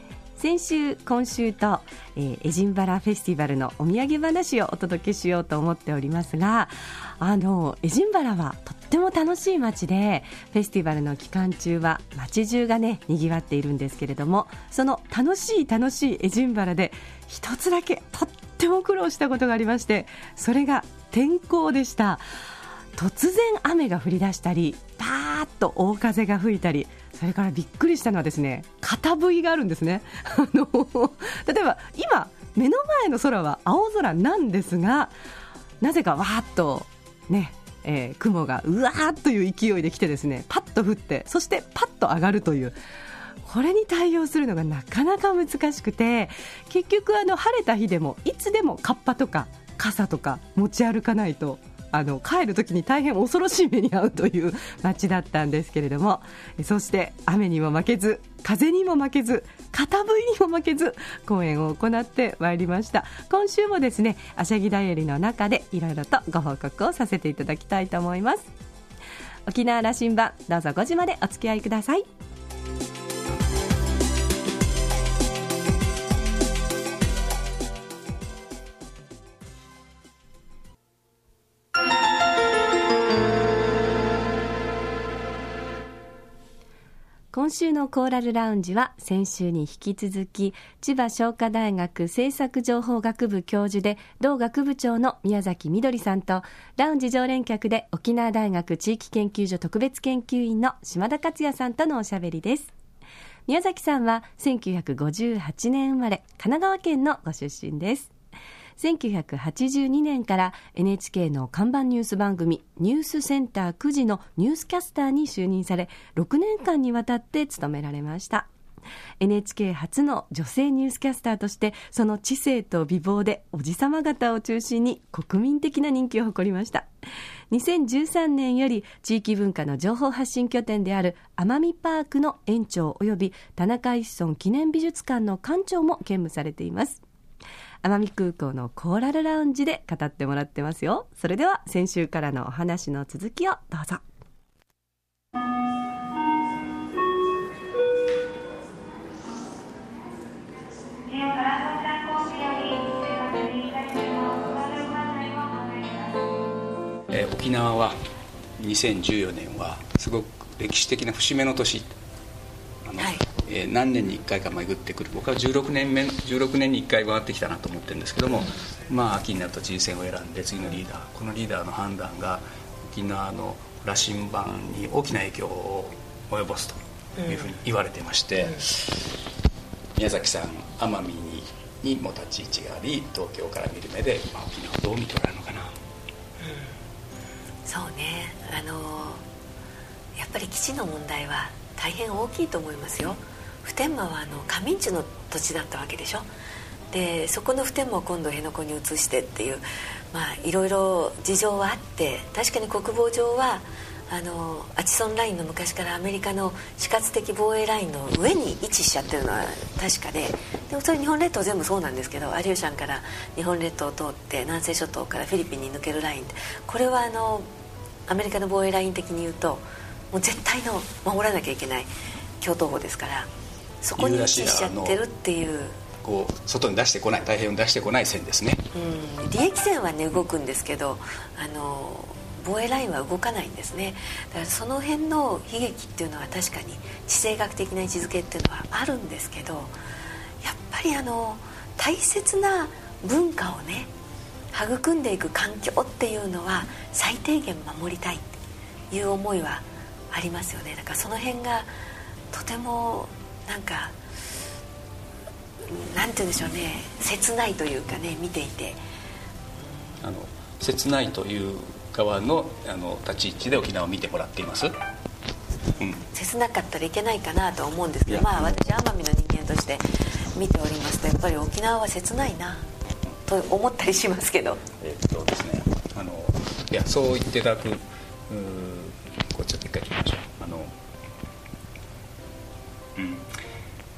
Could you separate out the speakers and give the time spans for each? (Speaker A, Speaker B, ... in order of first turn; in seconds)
Speaker A: 0.4-22.2, 22.9-35.1, 35.8-42.8, 43.4-68.5, 69.5-72.0, 87.3-102.7, 103.5-108.1, 108.8-118.5, 119.2-126.9, 127.5-137.0, 137.8-144.0
Speaker B: 151.1-155.8, 163.0-163.2, 177.2-177.5, 186.4-186.7, 187.7-189.2, 190.2-196.3, 196.9-217.5, 218.1-223.3, 223.8-225.8, 228.7-239.7, 240.4-243.9, 244.5-248.3, 248.9-251.7, 252.3-254.0, 255.7-258.8, 265.8-272.7, 273.3-274.6
Speaker C: 157.1-158.0, 158.6-162.0, 162.8-179.0, 180.0-185.8, 224.0-225.0, 226.0-228.7, 260.0-264.7, 265.8-266.1, 268.1-268.4, 274.8-280.7, 283.0-283.3